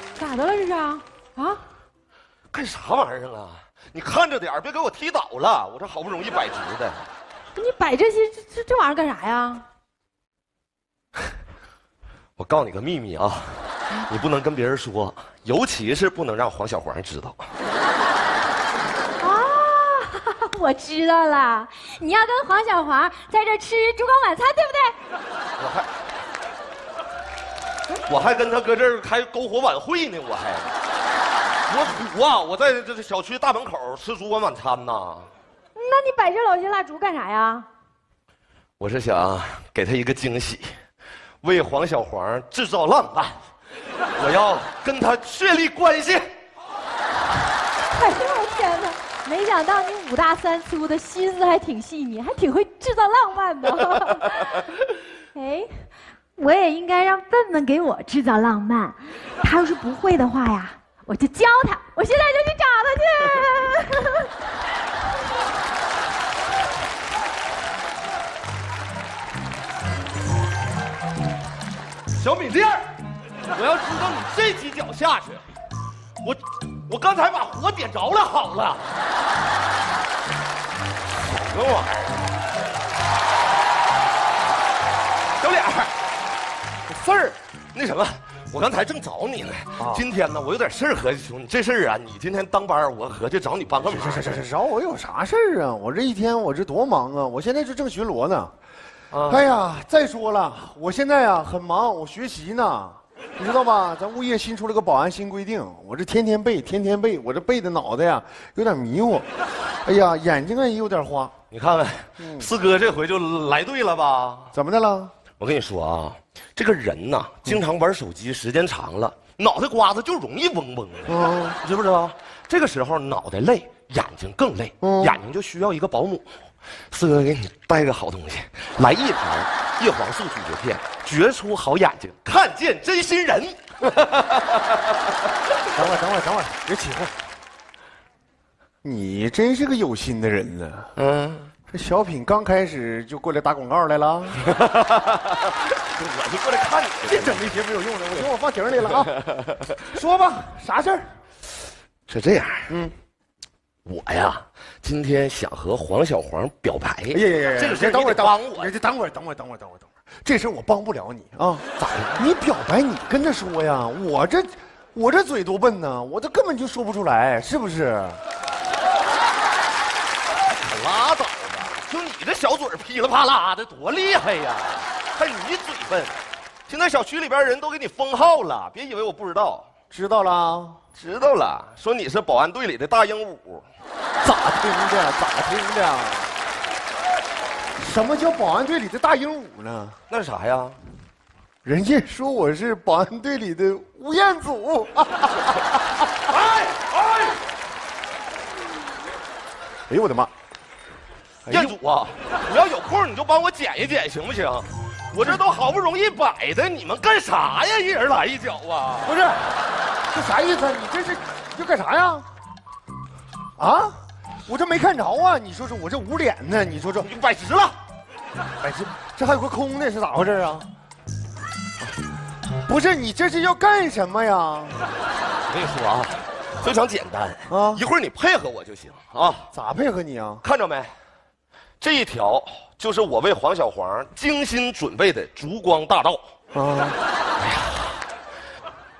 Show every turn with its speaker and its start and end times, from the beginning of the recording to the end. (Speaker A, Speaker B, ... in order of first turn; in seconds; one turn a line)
Speaker A: 0.2-1.6
Speaker B: 2.5-7.1
Speaker A: 7.5-9.6
Speaker B: 12.4-17.5
Speaker A: 19.2-24.9
Speaker B: 25.6-25.9
Speaker B: 28.1-30.7
Speaker B: 31.7-35.3
Speaker A: 35.8-37.7
Speaker B: 38.8-40.7
Speaker B: 41.4-43.4
Speaker B: 44.2-46.3
Speaker A: 47.9-54.6
Speaker A: 55.3-64.3
Speaker B: 72.1-72.9
Speaker B: 73.5-75.4
Speaker B: 76.2-78.8
Speaker B: 81.1-82.2
Speaker B: 85.4-85.9
Speaker C: 86.9-87.3
Speaker B: 87.7-94.4
Speaker C: 89.8-90.0
Speaker C: 93.8-98.5
Speaker B: 99.1-99.4
Speaker C: 99.2-109.3
Speaker C: 109.8-111.3
Speaker B: 111.5-114.5
Speaker C: 112.2-112.5
Speaker C: 114.5-115.1
Speaker B: 115.4-126.3
Speaker C: 121.1-121.6
Speaker C: 124.8-125.2
Speaker B: 126.9-134.9
Speaker C: 135.7-137.1
Speaker C: 138.8-140.9
Speaker B: 140.9-141.5
Speaker C: 141.7-144.4
Speaker B: 144.4-147.4
Speaker C: 147.1-149.1
Speaker C: 149.8-151.1
Speaker B: 152.1-152.7
Speaker C: 152.7-152.9
Speaker B: 153.9-158.7
Speaker C: 157.1-168.2
Speaker B: 161.8-162.2
Speaker B: 170.5-176.1
Speaker B: 176.7-179.7
Speaker C: 179.9-180.8
Speaker B: 181.0-183.6
Speaker C: 184.2-186.3
Speaker C: 187.8-189.9
Speaker B: 190.1-190.8
Speaker C: 191.6-196.0
Speaker B: 196.3-197.4
Speaker C: 199.9-200.3
Speaker C: 201.4-201.7
Speaker B: 201.5-209.2
Speaker C: 209.0-209.5
Speaker C: 210.1-212.2
Speaker C: 213.6-217.1
Speaker B: 217.0-217.8
Speaker C: 218.6-220.7
Speaker C: 222.7-224.8
Speaker B: 225.4-229.5
Speaker C: 227.5-227.8
Speaker C: 229.5-230.4
Speaker B: 230.4-230.9
Speaker B: 231.8-236.2
Speaker C: 236.5-237.0
Speaker B: 237.4-238.0